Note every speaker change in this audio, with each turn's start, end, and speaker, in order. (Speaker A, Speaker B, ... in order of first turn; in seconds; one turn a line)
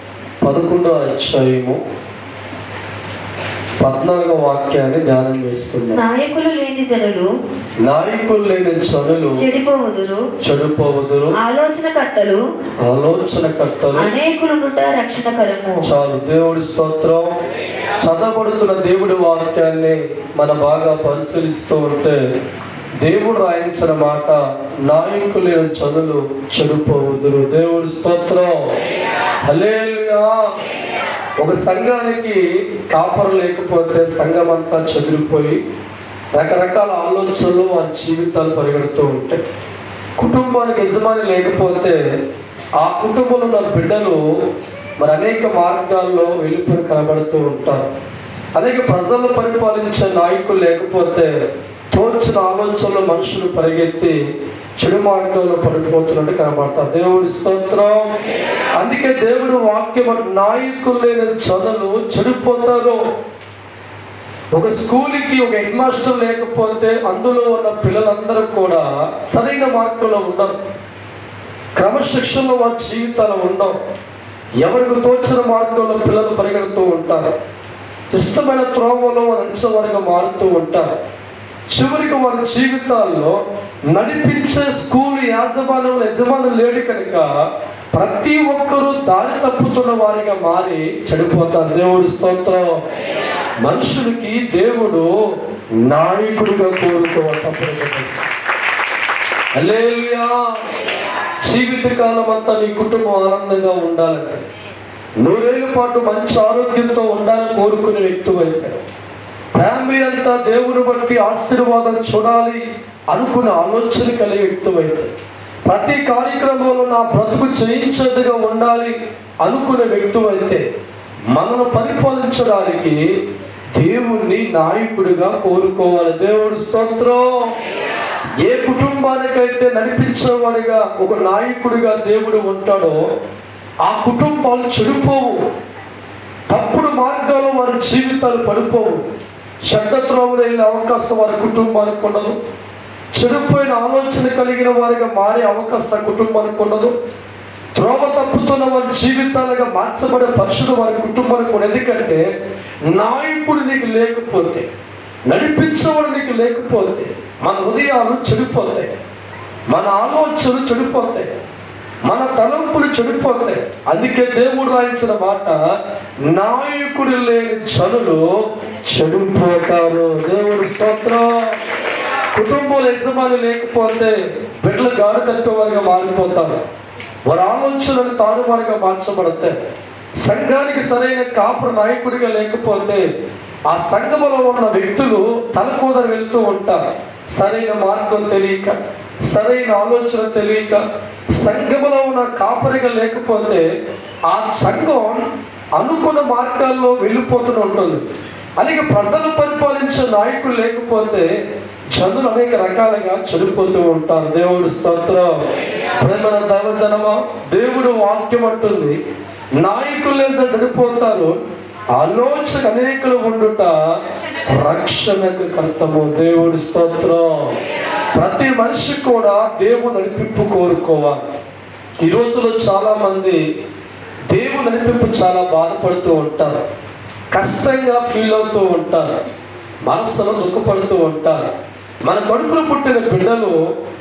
Speaker A: 0.4-1.8
Speaker A: 3.8-6.0
Speaker B: 6.0-7.3
Speaker A: 7.9-9.4
Speaker B: 9.4-10.2
Speaker A: 10.4-11.4
Speaker B: 11.4-12.4
Speaker A: 12.8-14.1
Speaker B: 14.0-15.9
Speaker A: 15.8-17.3
Speaker A: 18.0-22.2
Speaker A: 23.0-28.7
Speaker A: 29.5-30.4
Speaker A: 31.4-35.6
Speaker A: 36.4-39.4
Speaker A: 40.2-42.0
Speaker A: 42.8-44.2
Speaker A: 45.0-47.9
Speaker A: 48.6-51.3
Speaker A: 51.9-54.2
Speaker A: 54.8-58.1
Speaker A: 58.8-63.0
Speaker A: 64.5-70.6
Speaker A: 71.8-73.8
Speaker A: 74.6-77.3
Speaker A: 78.1-80.9
Speaker A: 81.7-83.4
Speaker A: 83.9-87.3
Speaker A: 87.9-92.8
Speaker A: 93.6-95.1
Speaker A: 95.8-98.3
Speaker A: 99.6-100.5
Speaker A: 101.5-104.5
Speaker A: 105.2-108.8
Speaker A: 109.5-112.6
Speaker A: 113.1-115.1
Speaker A: 115.7-120.6
Speaker A: 121.3-123.0
Speaker A: 123.8-127.5
Speaker A: 128.4-133.0
Speaker A: 133.9-135.4
Speaker A: 136.5-139.0
Speaker A: 139.7-142.4
Speaker A: 143.1-146.9
Speaker A: 147.8-152.2
Speaker A: 152.9-154.7
Speaker A: 155.3-158.9
Speaker A: 159.7-161.3
Speaker A: 162.1-165.6
Speaker A: 166.3-171.5
Speaker A: 172.3-176.6
Speaker A: 177.3-179.6
Speaker A: 180.2-183.0
Speaker A: 183.7-186.8
Speaker A: 187.4-190.8
Speaker A: 191.4-193.6
Speaker A: 194.3-195.2
Speaker A: 195.8-198.0
Speaker A: 198.6-201.3
Speaker A: 201.9-205.4
Speaker A: 206.0-209.0
Speaker A: 209.6-211.3
Speaker A: 212.0-213.7
Speaker A: 214.5-217.5
Speaker A: 218.2-221.3
Speaker A: 222.0-223.4
Speaker A: 224.3-226.6
Speaker A: 227.3-229.2
Speaker A: 229.9-231.5
Speaker A: 232.1-233.6